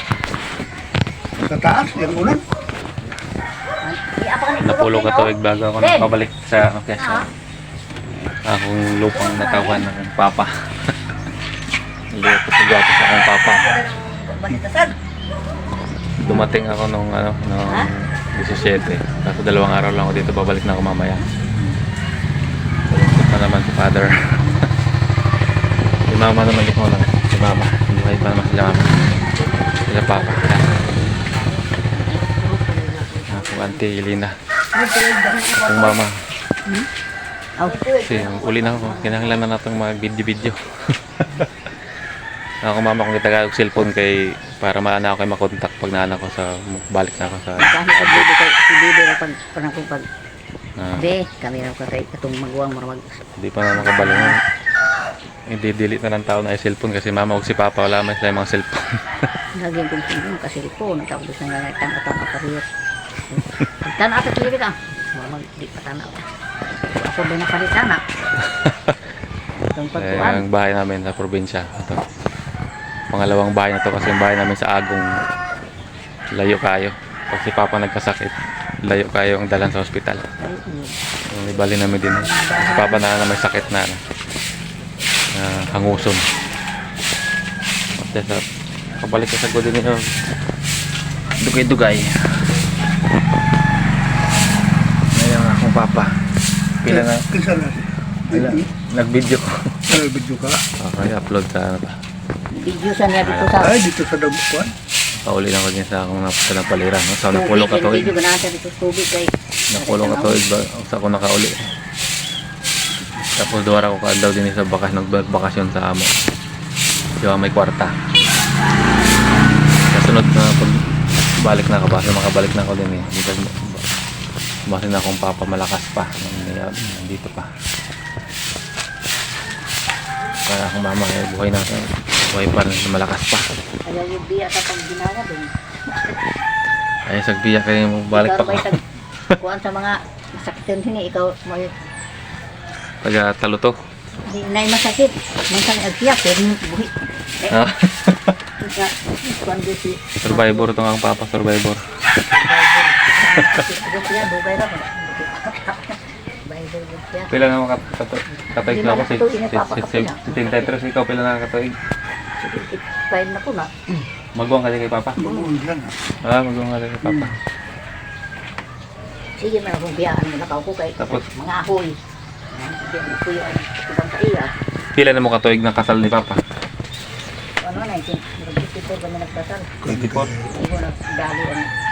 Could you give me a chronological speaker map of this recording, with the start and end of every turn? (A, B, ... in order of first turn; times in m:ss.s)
0:01.4-0:02.4 A
0:03.8-0:06.1 B
0:04.6-0:07.2 C
0:07.0-0:07.2 B
0:08.4-0:10.9 C
0:09.1-0:09.8 B
0:12.1-0:13.6 C
0:13.4-0:14.9 B
0:16.2-0:21.8 C
0:22.9-0:24.5 C
0:26.1-0:29.0 C
0:29.4-0:33.8 B
0:29.9-0:30.7 C
0:33.3-0:34.3 C
0:34.8-0:35.9 B
0:35.6-0:36.1 C
0:37.6-0:39.4 B
0:38.0-0:41.5 C
0:42.6-0:48.3 C
0:47.6-0:50.0 B
0:51.0-0:53.2 B
0:53.4-0:54.3 C
0:53.7-0:54.3 B
0:55.5-0:59.0 C
0:59.6-1:02.6 B
1:03.3-1:06.2 B
1:06.9-1:08.0 B
1:08.4-1:08.9 C
1:09.7-1:10.4 B
1:10.0-1:12.0 C
1:13.1-1:15.1 C
1:16.3-1:20.2 C
1:20.4-1:20.9 B
1:21.3-1:24.0 C
1:21.5-1:23.1 B
1:25.3-1:26.3 C
1:25.7-1:26.3 B
1:28.0-1:28.4 C
1:29.0-1:30.1 C
1:31.4-1:32.2 C
1:35.1-1:36.1 C
1:36.8-1:37.2 C
1:36.8-1:38.6 A
1:38.3-1:39.5 C
1:39.9-1:40.6 A
1:40.8-1:42.0 C
1:42.5-1:43.7 B
1:43.2-1:43.6 C
1:43.6-1:44.7 A
1:45.2-1:48.1 C
1:47.3-1:50.4 B
1:49.7-1:51.6 C
1:53.4-1:56.1 C
1:57.2-1:57.9 C
1:59.9-2:00.8 C
2:01.4-2:03.9 C
2:04.7-2:07.5 C
2:10.4-2:13.5 C
2:13.8-2:16.0 B
2:17.1-2:18.7 C
2:18.1-2:18.8 B
2:19.4-2:21.7 B
2:23.0-2:23.8 C
2:24.3-2:27.6 B
2:27.5-2:28.4 C
2:28.6-2:30.7 B
2:30.2-2:31.8 C
2:32.2-2:37.3 B
2:37.3-2:41.7 C
2:38.6-2:40.7 B
2:42.4-2:42.7 A
2:42.7-2:43.7 B
2:44.3-2:45.2 C
2:45.2-2:45.9 A
2:46.2-2:47.3 C
2:47.0-2:47.3 A
2:49.4-2:52.0 B
2:51.0-2:51.2 C
2:52.5-2:54.5 B
2:54.9-2:56.4 C
2:57.6-2:59.7 B
2:59.8-3:00.5 A
2:59.9-3:00.3 C
3:00.6-3:01.7 B